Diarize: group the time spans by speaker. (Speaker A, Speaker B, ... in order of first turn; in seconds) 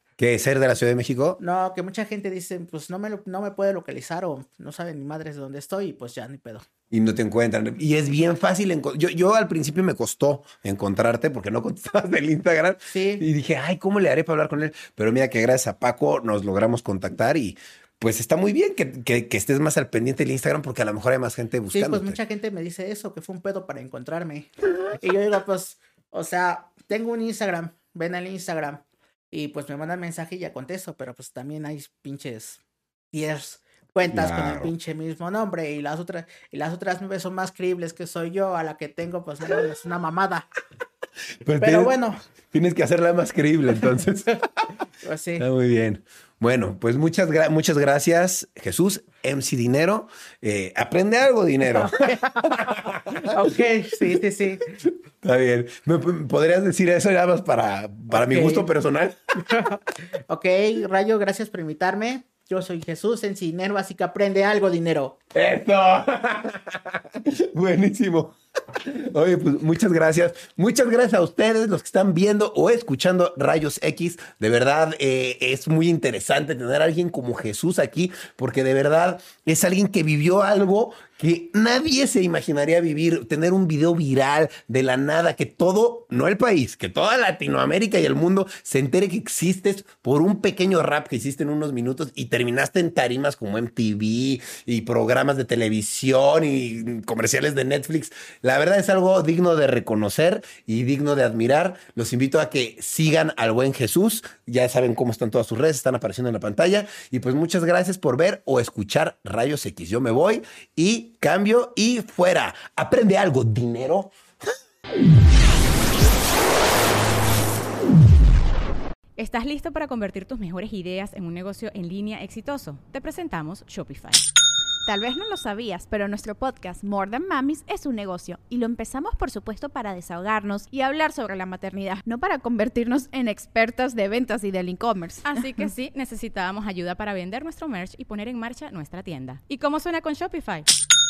Speaker A: 0.2-1.4, 6.9-22.2, 34.1-34.7, 41.4-42.0, 42.5-44.4, 45.4-53.3, 55.2-59.6, 65.3-114.1
Speaker B: 1.4-6.7, 12.9-13.2, 21.7-32.6, 33.1-40.5, 41.6-42.2, 45.0-45.5, 51.8-54.8, 58.1-58.7, 59.4-65.2
Speaker C: 119.2-124.2, 135.2-140.7
Speaker D: 124.8-135.6